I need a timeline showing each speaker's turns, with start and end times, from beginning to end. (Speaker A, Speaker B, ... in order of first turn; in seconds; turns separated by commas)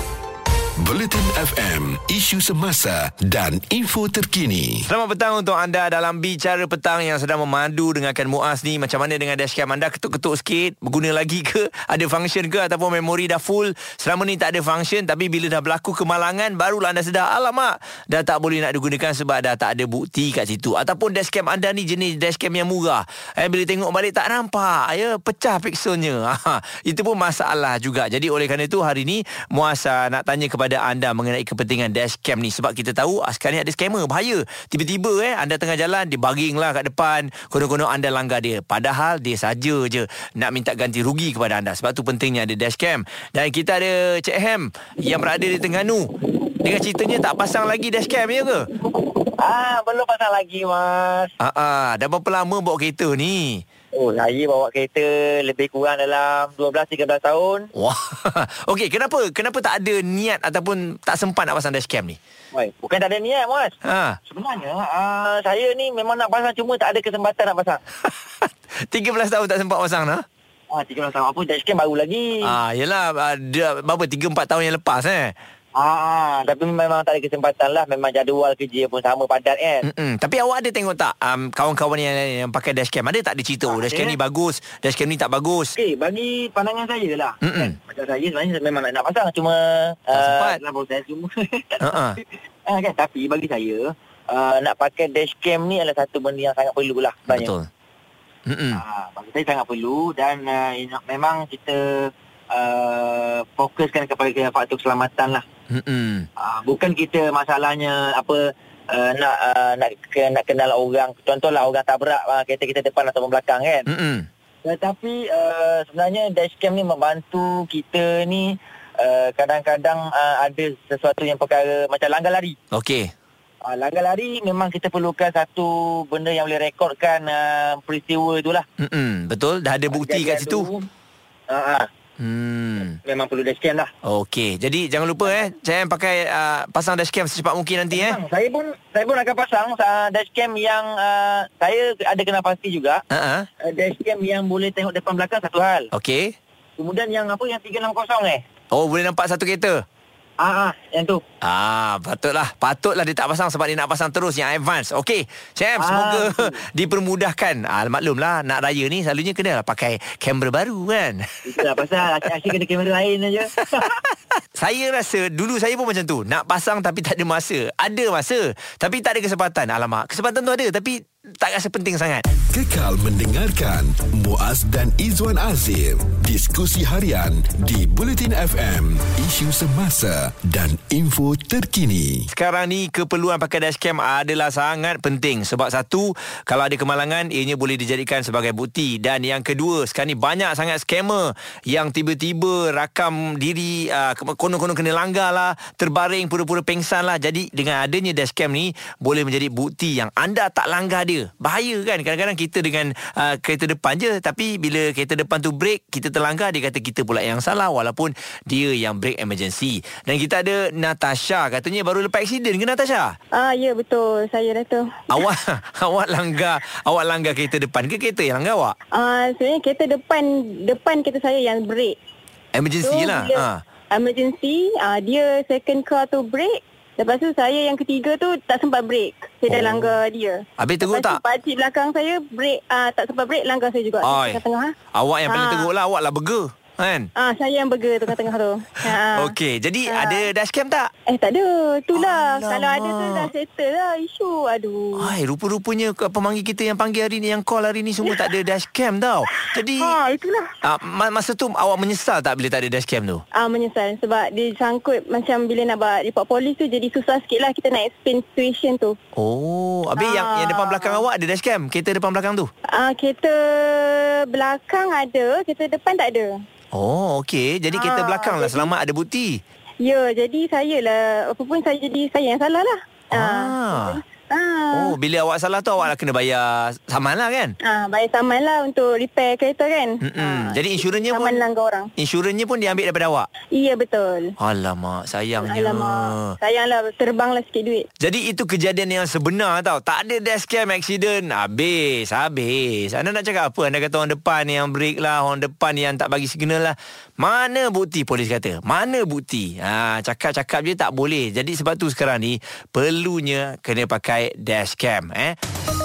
Speaker A: 0.8-4.9, Speaker B: 4.9-46.1, Speaker B: 46.6-48.7, Speaker C: 49.4-51.3, Speaker B: 51.4-53.6, Speaker C: 53.9-57.7, Speaker B: 57.7-62.2, Speaker C: 62.5-63.7, Speaker B: 63.8-64.2, Speaker C: 64.3-67.8, Speaker B: 68.0-70.2, Speaker C: 70.7-72.5, Speaker B: 72.4-75.3, Speaker C: 75.8-79.8, Speaker B: 79.8-85.7, Speaker C: 83.7-84.2, Speaker C: 85.8-97.5, Speaker B: 87.4-87.8, Speaker B: 90.1-90.6, Speaker B: 91.8-92.2, Speaker B: 97.3-97.7, Speaker B: 98.5-98.8, Speaker C: 98.7-105.4, Speaker B: 105.7-106.3, Speaker C: 106.4-113.9, Speaker B: 113.9-114.3, Speaker C: 114.6-122.5, Speaker B: 122.7-123.1, Speaker C: 123.6-128.6, Speaker B: 128.8-130.7, Speaker C: 129.9-130.9, Speaker C: 131.5-131.9, Speaker B: 132.2-132.9, Speaker C: 133.0-133.9, Speaker B: 134.0-138.2, Speaker C: 137.9-143.0, Speaker B: 143.1-143.5, Speaker C: 143.6-145.9, Speaker B: 145.9-146.3, Speaker C: 146.8-148.4, Speaker B: 148.7-149.8, Speaker C: 150.4-151.2, Speaker B: 151.4-161.5, Speaker C: 155.8-156.6, Speaker C: 161.4-163.9, Speaker B: 164.5-172.3, Speaker A: 172.5-182.3, Speaker B: 182.3-213.1, Speaker D: 213.3-215.2, Speaker B: 215.1-218.8, Speaker D: 218.9-221.9, Speaker B: 222.5-223.6, Speaker D: 222.8-234.7, Speaker B: 229.5-230.0, Speaker B: 230.6-231.2, Speaker B: 234.0-234.4, Speaker B: 234.9-237.1, Speaker D: 235.3-235.7, Speaker D: 237.2-239.3, Speaker B: 238.8-240.9, Speaker D: 239.8-240.3, Speaker D: 241.1-245.1, Speaker B: 241.9-243.3, Speaker B: 245.0-250.0, Speaker D: 249.7-250.5, Speaker B: 250.6-253.2, Speaker D: 253.3-258.9, Speaker B: 259.1-262.5, Speaker D: 260.0-261.0, Speaker D: 262.7-266.4, Speaker B: 266.7-269.4, Speaker D: 267.7-268.7, Speaker D: 269.8-274.9, Speaker B: 273.1-274.0, Speaker B: 274.7-277.5, Speaker D: 277.6-281.9, Speaker B: 280.0-281.4, Speaker B: 282.0-283.3, Speaker D: 283.5-284.3, Speaker B: 284.4-286.3, Speaker D: 285.4-287.9, Speaker B: 288.0-305.4